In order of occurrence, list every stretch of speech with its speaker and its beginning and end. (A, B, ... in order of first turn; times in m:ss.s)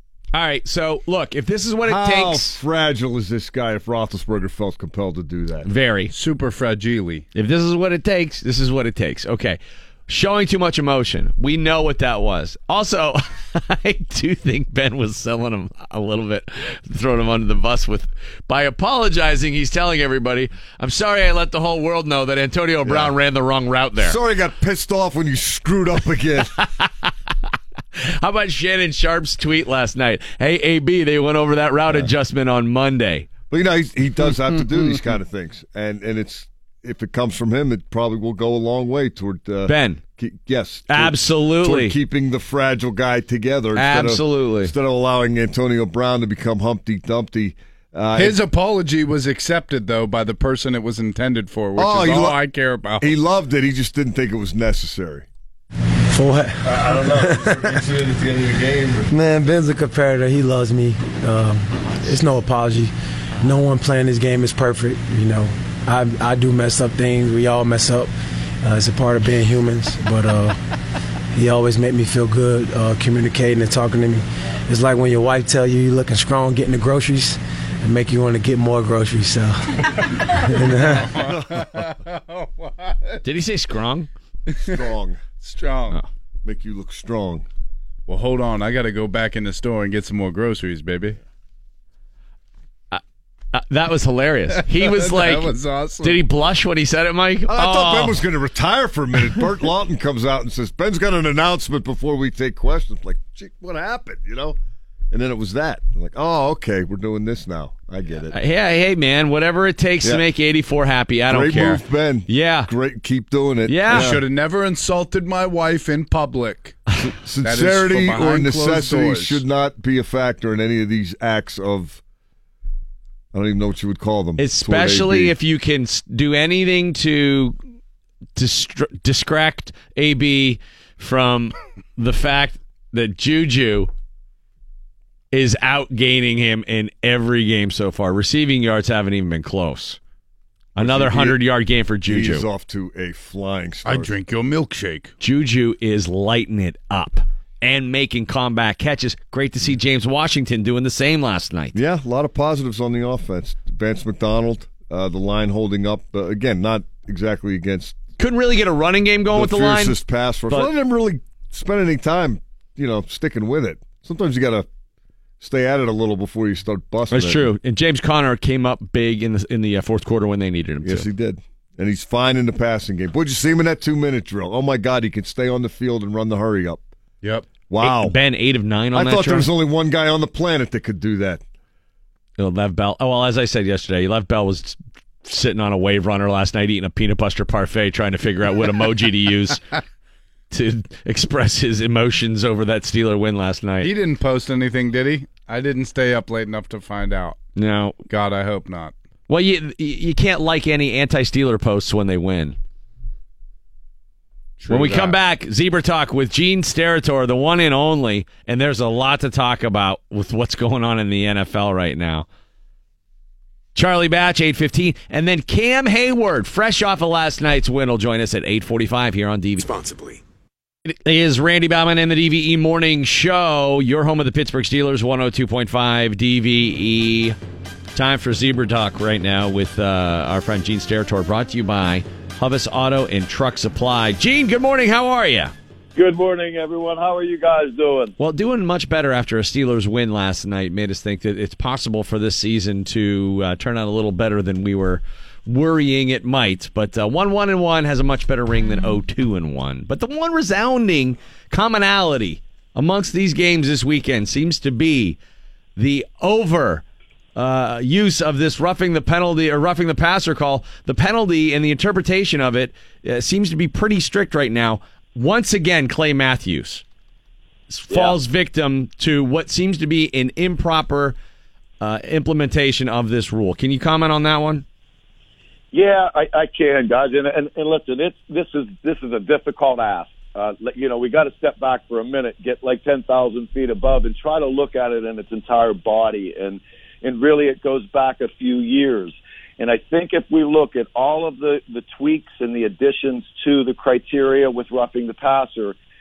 0:00.3-0:02.5 A
0:01.8-0:05.7 B
0:05.6-0:06.1 A
0:06.1-0:07.3 C
0:07.3-0:24.2 A
0:22.8-0:23.1 B
0:24.0-0:26.5 B
0:26.6-0:27.1 A
0:28.0-0:33.3 A
0:33.5-0:48.4 B
0:39.6-0:40.0 A
0:40.9-0:41.9 A
0:43.8-0:44.7 A
0:48.2-0:53.1 C
0:51.8-0:52.4 B
0:53.0-0:55.3 B
0:56.1-0:57.6 D
0:56.6-0:59.1 B
0:59.1-1:10.6 D
1:11.3-1:19.8 D
1:20.4-1:21.1 D
1:20.8-1:23.2 C
1:21.2-1:21.6 B
1:23.2-1:24.1 A
1:24.5-1:24.8 C
1:24.6-1:25.2 B
1:25.4-1:26.0 C
1:26.4-1:27.4 B
1:28.1-1:31.2 C
1:33.5-1:38.2 A
1:34.6-1:36.2 C
1:37.5-1:44.6 B
1:45.1-1:48.4 B
1:48.3-1:52.7 A
1:51.3-1:54.2 B
1:53.7-1:54.2 A
1:53.9-1:56.8 C
1:57.0-2:02.0 B
1:57.4-1:59.4 C
2:03.3-2:05.3 B
2:04.4-2:07.5 A
2:08.4-2:13.9 A
2:15.3-2:20.0 A
2:20.8-2:22.4 A
2:20.8-2:21.4 B
2:22.0-2:24.1 B
2:23.8-2:25.1 C
2:25.2-2:31.8 A
2:31.7-2:38.0 B
2:38.2-2:40.0 A
2:39.3-2:44.7 B
2:45.4-2:47.5 B
2:47.1-2:51.0 A
2:50.8-2:56.8 B
2:57.2-2:57.5 C
2:57.7-2:58.2 B
2:57.8-2:59.5 A
2:58.9-3:01.4 B
3:02.4-3:09.6 A
3:10.5-3:13.9 A
3:13.8-3:17.4 C
3:17.6-3:18.0 A
3:18.1-3:18.9 C
3:19.3-3:22.6 A
3:24.6-3:25.2 C
3:24.7-3:32.2 A
3:33.7-3:39.8 A
3:40.8-3:47.4 A
3:47.9-3:55.5 A
3:56.0-3:58.1 E
3:58.2-4:15.2 A
4:15.8-4:16.8 A
4:17.4-4:26.8 A
4:27.7-4:31.2 A
4:27.9-4:28.2 E
4:31.8-4:34.6 A
4:35.7-4:55.8 E